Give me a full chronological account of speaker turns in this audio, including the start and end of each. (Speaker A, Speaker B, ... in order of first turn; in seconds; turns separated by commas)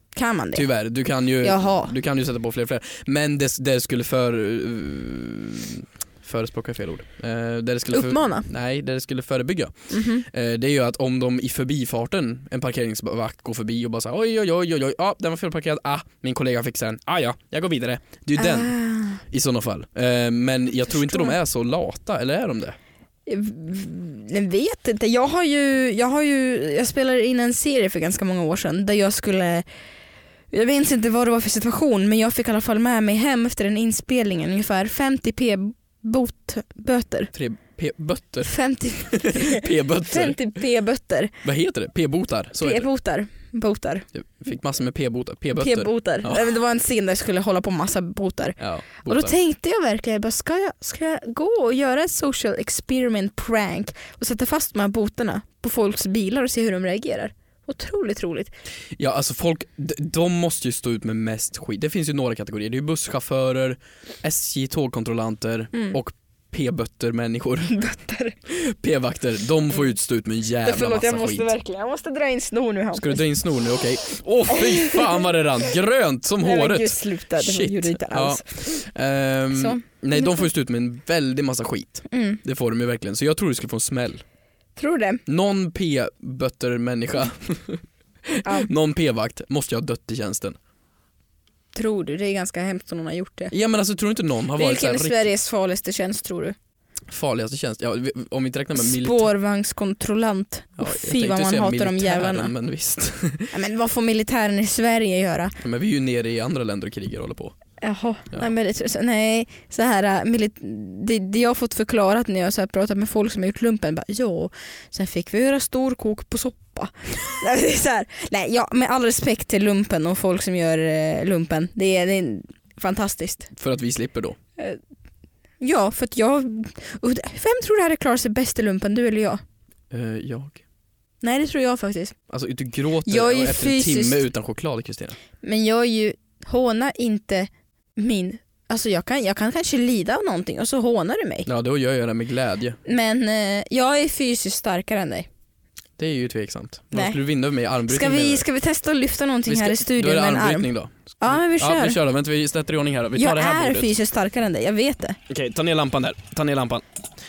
Speaker A: 0.1-0.7, Speaker B: 0.5-22.8, Speaker A: 1.4-1.9, Speaker A: 7.9-8.5, Speaker A: 9.9-10.2, Speaker A: 18.4-19.2, Speaker A: 20.9-21.4, Speaker A: 23.2-29.6, Speaker A: 30.5-37.3, Speaker B: 37.3-40.5, Speaker A: 38.4-41.3, Speaker B: 41.4-42.9, Speaker A: 42.6-44.1, Speaker B: 44.1-46.4, Speaker A: 45.6-58.5, Speaker B: 48.6-49.3, Speaker B: 59.0-67.7, Speaker A: 67.7-68.3, Speaker B: 68.5-71.5, Speaker A: 70.6-73.2, Speaker B: 72.9-84.2, Speaker A: 74.5-75.2, Speaker A: 76.4-78.6, Speaker A: 79.5-80.5, Speaker A: 82.1-82.4, Speaker A: 84.8-85.2, Speaker B: 85.2-90.6, Speaker A: 91.7-93.5, Speaker B: 93.5-95.3, Speaker A: 94.5-96.5, Speaker B: 97.1-99.3, Speaker A: 98.8-102.5, Speaker B: 100.8-103.5, Speaker A: 103.5-105.5, Speaker B: 105.6-107.5, Speaker A: 107.8-123.5, Speaker B: 123.5-124.4, Speaker A: 125.6-129.4, Speaker B: 129.9-130.6, Speaker A: 131.2-132.2, Speaker B: 132.3-135.2, Speaker A: 133.0-134.2, Speaker A: 135.4-141.5, Speaker B: 141.4-142.8, Speaker A: 142.8-145.3, Speaker B: 146.0-148.4, Speaker A: 146.9-147.2, Speaker A: 147.9-150.7, Speaker B: 149.5-153.9, Speaker A: 151.2-152.0, Speaker A: 153.2-155.2, Speaker B: 155.3-156.8